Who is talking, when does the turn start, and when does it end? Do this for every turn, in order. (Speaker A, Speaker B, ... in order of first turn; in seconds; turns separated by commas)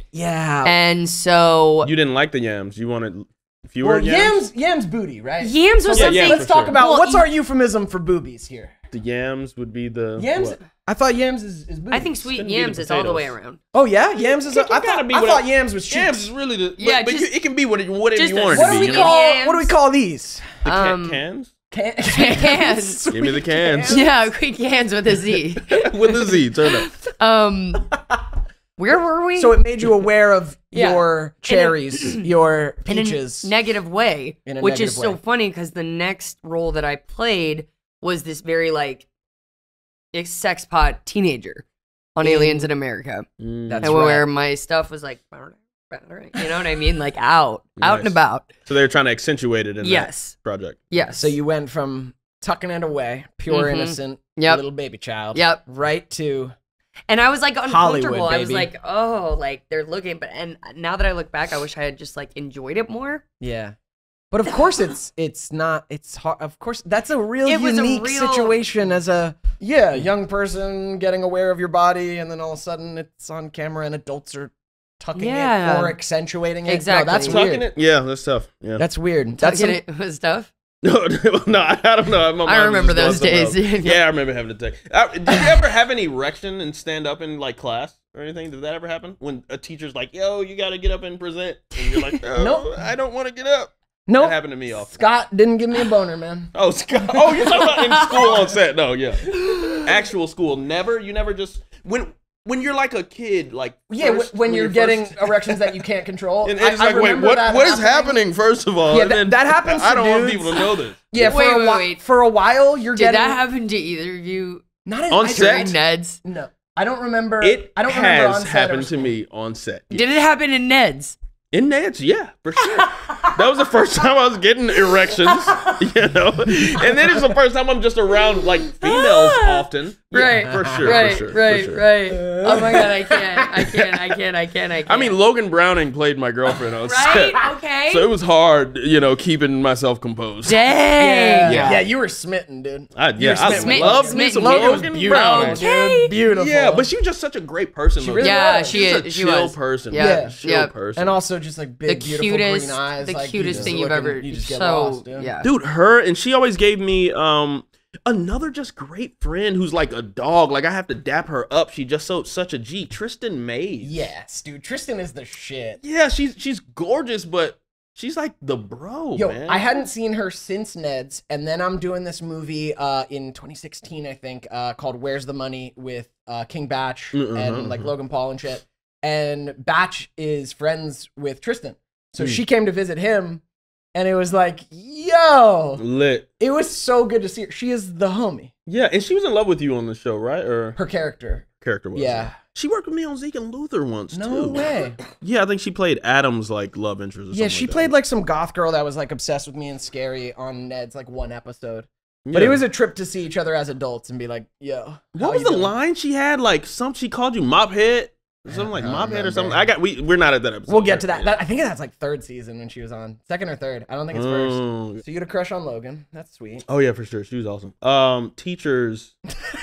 Speaker A: 0.1-0.8, Speaker B: 0.6-1.9, Speaker C: 1.8-4.4, Speaker A: 3.8-8.7, Speaker B: 5.4-7.3, Speaker C: 5.9-6.8, Speaker C: 8.9-10.6, Speaker A: 10.2-12.3, Speaker B: 11.9-13.6, Speaker C: 12.3-13.3, Speaker A: 13.7-16.3, Speaker C: 14.5-19.2, Speaker B: 16.8-17.3, Speaker B: 18.1-19.7, Speaker A: 18.5-20.6, Speaker C: 20.6-21.5, Speaker B: 20.6-21.2, Speaker A: 21.7-24.2, Speaker B: 22.1-23.0, Speaker C: 23.1-24.0, Speaker B: 23.9-27.9, Speaker C: 25.7-26.9, Speaker A: 27.9-28.2, Speaker B: 28.8-29.6, Speaker A: 29.4-33.5, Speaker B: 30.7-32.3, Speaker B: 32.9-39.1, Speaker A: 34.5-35.2, Speaker B: 40.1-41.6, Speaker B: 42.1-43.2, Speaker A: 42.2-42.7, Speaker C: 43.4-43.9, Speaker A: 43.7-44.2, Speaker B: 43.8-48.5, Speaker C: 47.8-50.8, Speaker B: 49.8-50.4, Speaker B: 50.9-51.3, Speaker A: 51.1-56.5, Speaker B: 53.5-54.6, Speaker B: 55.3-55.6, Speaker B: 57.1-63.2, Speaker A: 57.6-58.7, Speaker A: 63.4-63.7, Speaker A: 64.3-77.7, Speaker B: 67.4-68.6, Speaker B: 75.2-76.0, Speaker B: 76.6-77.4, Speaker C: 77.2-78.8, Speaker A: 78.8-79.8, Speaker B: 79.4-80.5, Speaker C: 80.8-95.0, Speaker B: 82.4-84.0, Speaker A: 92.3-92.8, Speaker A: 94.1-98.5, Speaker C: 96.5-105.8, Speaker A: 99.4-99.8, Speaker B: 99.4-99.8, Speaker A: 103.9-108.2, Speaker C: 106.4-111.2, Speaker A: 108.9-113.4, Speaker B: 111.2-112.0, Speaker B: 112.9-114.6, Speaker A: 114.8-119.1, Speaker C: 115.1-115.8, Speaker B: 115.2-116.2, Speaker C: 117.4-120.1, Speaker B: 119.9-121.2, Speaker C: 121.5-131.8, Speaker A: 122.8-123.3, Speaker A: 124.8-125.8, Speaker A: 126.8-127.2, Speaker B: 128.3-135.2, Speaker A: 130.2-131.1, Speaker A: 132.1-133.7, Speaker C: 134.8-140.6, Speaker B: 136.8-138.1, Speaker B: 140.4-141.8, Speaker A: 141.0-146.9, Speaker C: 141.4-141.8, Speaker C: 142.9-145.7, Speaker B: 143.4-146.1, Speaker C: 146.2-151.2, Speaker A: 147.9-148.8, Speaker B: 148.2-150.7, Speaker A: 149.9-150.3, Speaker A: 150.9-155.3, Speaker B: 151.8-155.5, Speaker C: 153.4-153.7, Speaker C: 155.4-164.1, Speaker A: 163.8-165.8, Speaker C: 165.8-169.7, Speaker A: 169.1-183.4, Speaker C: 177.1-177.9, Speaker A: 183.9-185.8, Speaker C: 185.8-186.3, Speaker A: 186.4-188.5, Speaker C: 188.7-190.8, Speaker A: 190.8-192.3, Speaker C: 191.6-197.9, Speaker A: 194.1-195.0, Speaker A: 197.3-205.7, Speaker C: 202.2-202.6, Speaker C: 205.2-211.4, Speaker A: 208.5-209.7, Speaker A: 210.7-216.6, Speaker C: 214.1-215.0, Speaker C: 216.7-219.2